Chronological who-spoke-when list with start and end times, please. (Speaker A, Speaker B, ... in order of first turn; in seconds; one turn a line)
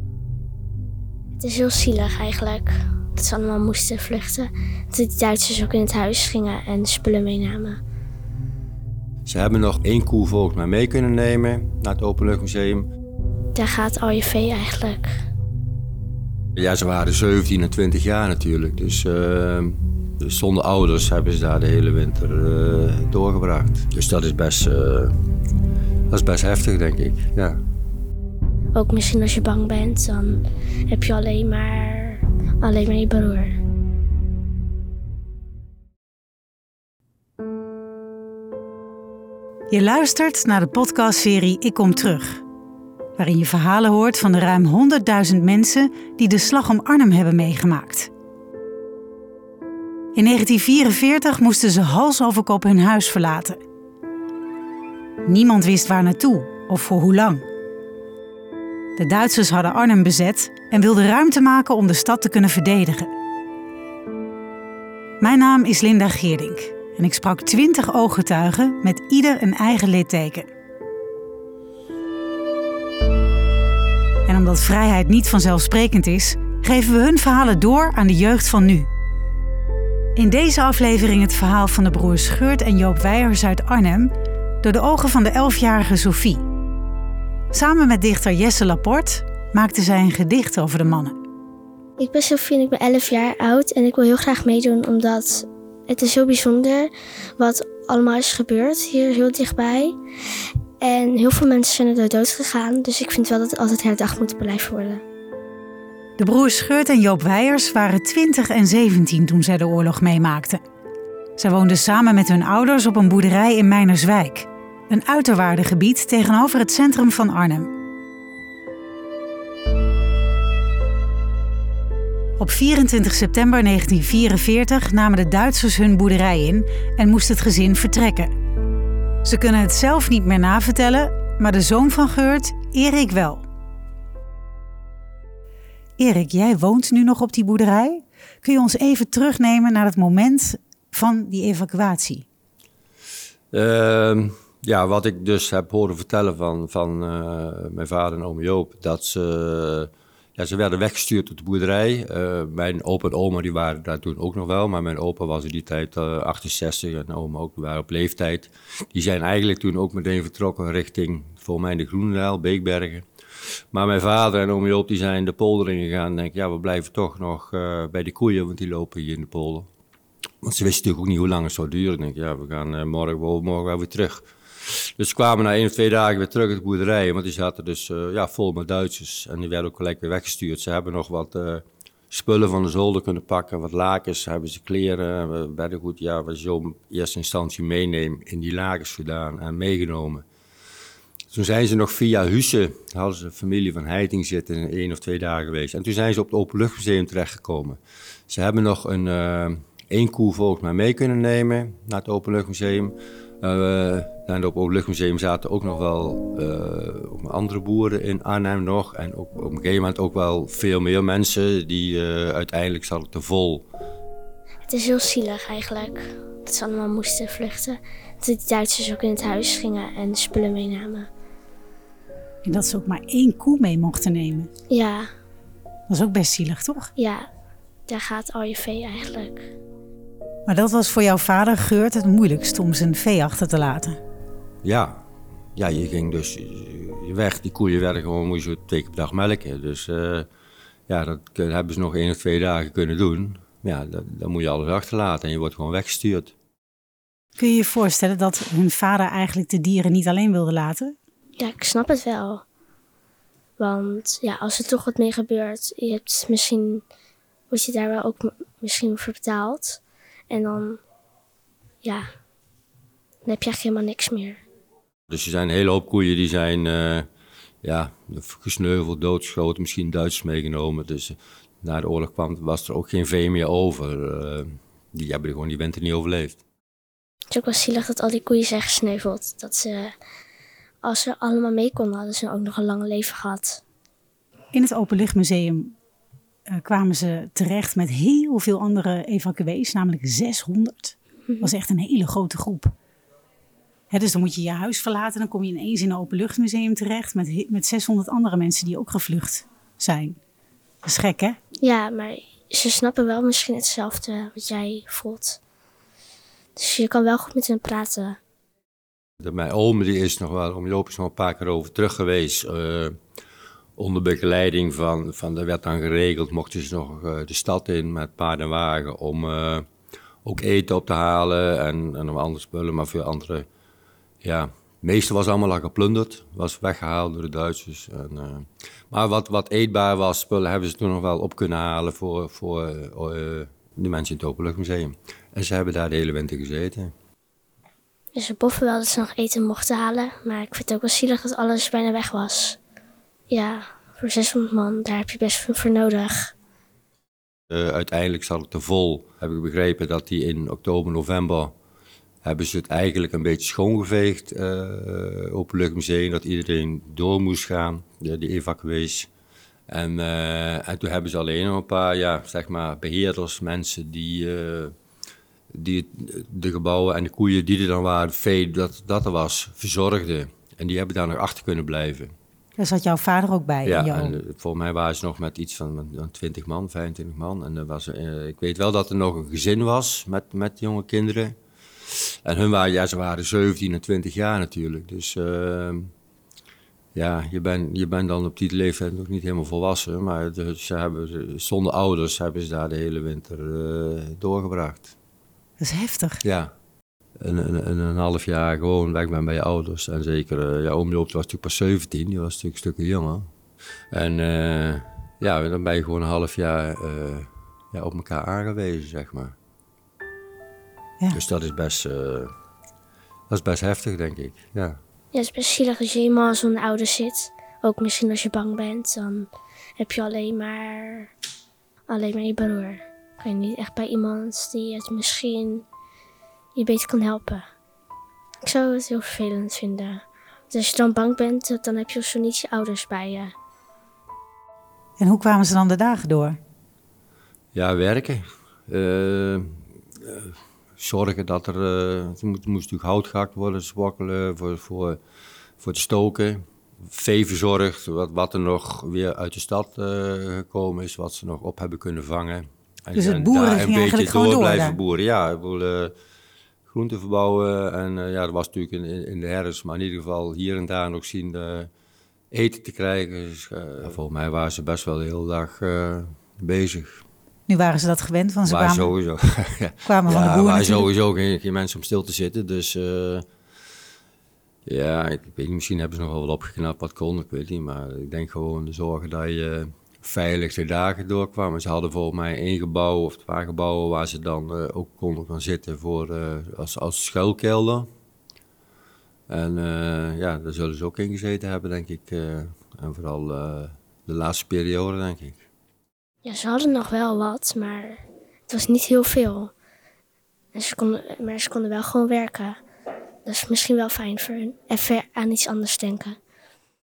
Speaker A: 1.4-7.8
Speaker B: 9.2-12.9
Speaker A: 13.5-15.1
Speaker B: 16.6-25.1
Speaker B: 26.1-27.6
Speaker A: 28.7-33.5
Speaker C: 39.7-42.4
Speaker C: 43.2-48.1
Speaker C: 50.1-53.6
Speaker C: 55.2-57.5
Speaker C: 59.0-63.1
Speaker C: 65.2-70.5
Speaker C: 74.2-78.9
Speaker C: 80.2-86.4
Speaker C: 87.5-91.2
Speaker A: 92.0-100.0
Speaker A: 100.8-105.0
Speaker C: 106.2-110.6
Speaker C: 111.4-117.7
Speaker C: 122.4-128.3
Speaker C: 129.2-133.4
Speaker C: 136.0-142.2
Speaker B: 143.5-169.7
Speaker B: 170.4-190.2
Speaker B: 191.3-213.6
Speaker A: 214.7-221.1
Speaker C: 222.4-224.5
Speaker A: 224.7-225.1
Speaker C: 225.9-226.9
Speaker A: 227.0-227.3
Speaker A: 227.9-229.5
Speaker C: 230.5-234.0
Speaker B: 234.6-240.3
Speaker B: 240.9-246.3
Speaker C: 247.4-250.9
Speaker A: 251.4-252.4
Speaker A: 253.6-256.8
Speaker A: 257.5-260.8
Speaker A: 261.8-262.1
Speaker A: 263.2-264.4
Speaker B: 265.1-267.1
Speaker B: 267.6-276.4
Speaker A: 277.3-279.9
Speaker A: 280.8-283.6
Speaker C: 284.5-285.7
Speaker C: 286.5-292.7
Speaker C: 293.9-300.2
Speaker C: 300.8-301.4
Speaker A: 301.6-305.4
Speaker A: 306.6-308.2
Speaker B: 309.2-313.0
Speaker B: 313.8-319.7
Speaker B: 320.2-323.5
Speaker B: 324.2-336.9
Speaker A: 338.1-342.6
Speaker A: 343.3-346.3
Speaker B: 347.5-351.5
Speaker B: 352.2-359.1
Speaker B: 359.7-364.8
Speaker B: 365.5-372.1
Speaker C: 372.6-374.1
Speaker B: 373.6-385.9
Speaker B: 386.9-394.9
Speaker C: 395.6-396.2
Speaker B: 396.2-396.5
Speaker B: 397.2-403.3
Speaker B: 403.9-409.4
Speaker B: 411.1-412.3
Speaker B: 413.3-414.8
Speaker A: 415.1-421.1
Speaker A: 421.9-425.6
Speaker A: 426.5-427.4
Speaker A: 428.4-433.3
Speaker C: 435.0-436.4
Speaker B: 437.5-445.0
Speaker B: 445.6-455.9
Speaker C: 452.9-454.8
Speaker B: 456.7-461.7
Speaker B: 462.3-467.0
Speaker C: 467.5-468.9
Speaker B: 468.4-473.2
Speaker C: 469.8-470.9
Speaker B: 474.6-487.9
Speaker B: 489.3-495.4
Speaker A: 496.2-499.5
Speaker A: 500.5-502.6
Speaker A: 503.2-506.2